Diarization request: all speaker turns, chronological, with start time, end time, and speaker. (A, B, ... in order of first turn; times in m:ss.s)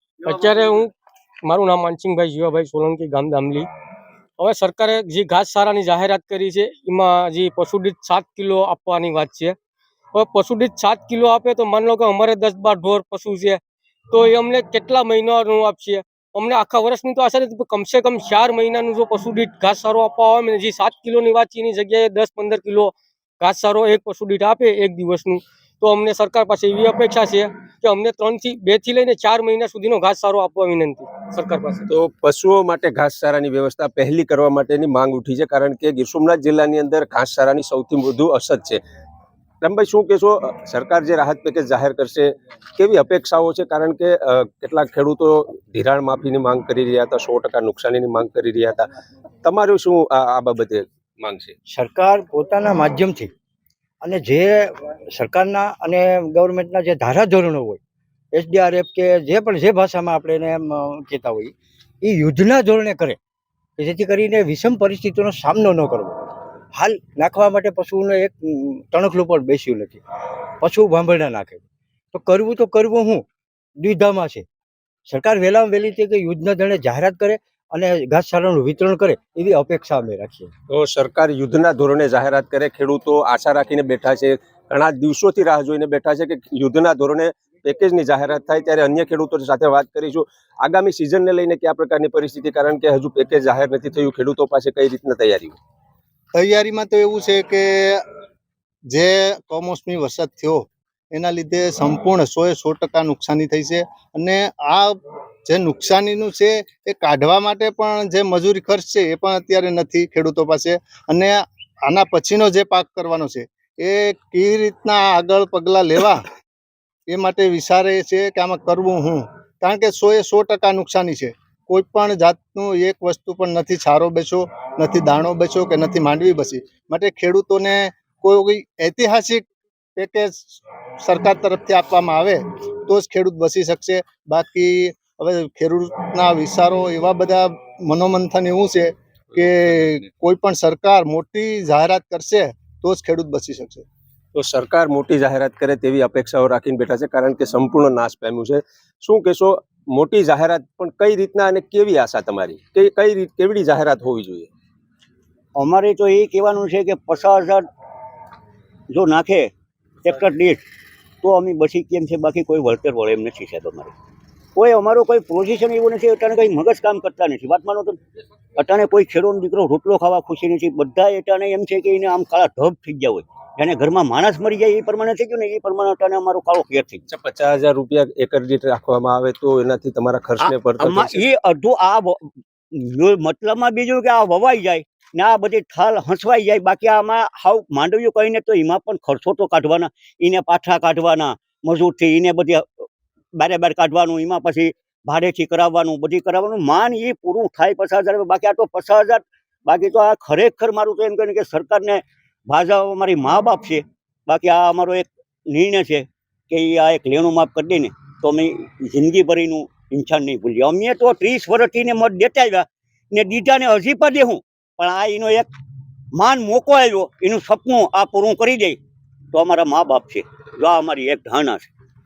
0:00.2-0:00.9 A
0:01.4-0:03.7 A
0:04.4-0:09.6 A
0:10.1-0:13.6 A
0:14.1-0:31.9 A
0:31.9-0:38.8 B
0:39.6-0:48.9 B
0:49.4-0:51.5 B
0:51.7-0:53.3 C
0:54.0-0:57.8 C
0:58.3-1:03.2 C
1:03.8-1:10.0 C
1:10.6-1:11.6 C
1:12.1-1:13.2 C
1:13.8-1:14.4 C
1:15.1-1:20.5 C
1:20.7-1:35.6 B
1:36.3-1:38.0 D
1:38.9-1:56.2 D
1:57.1-2:23.8 D
2:24.3-2:34.5 B
2:35.6-2:37.6 E
2:38.9-2:39.5 E
2:40.0-2:40.6 E
2:41.2-2:43.9 E
2:44.6-2:48.0 E
2:48.6-2:57.0 E
2:57.1-3:01.2 B
3:00.4-3:35.5 E
3:36.1-3:38.8 E
3:39.3-3:41.7 E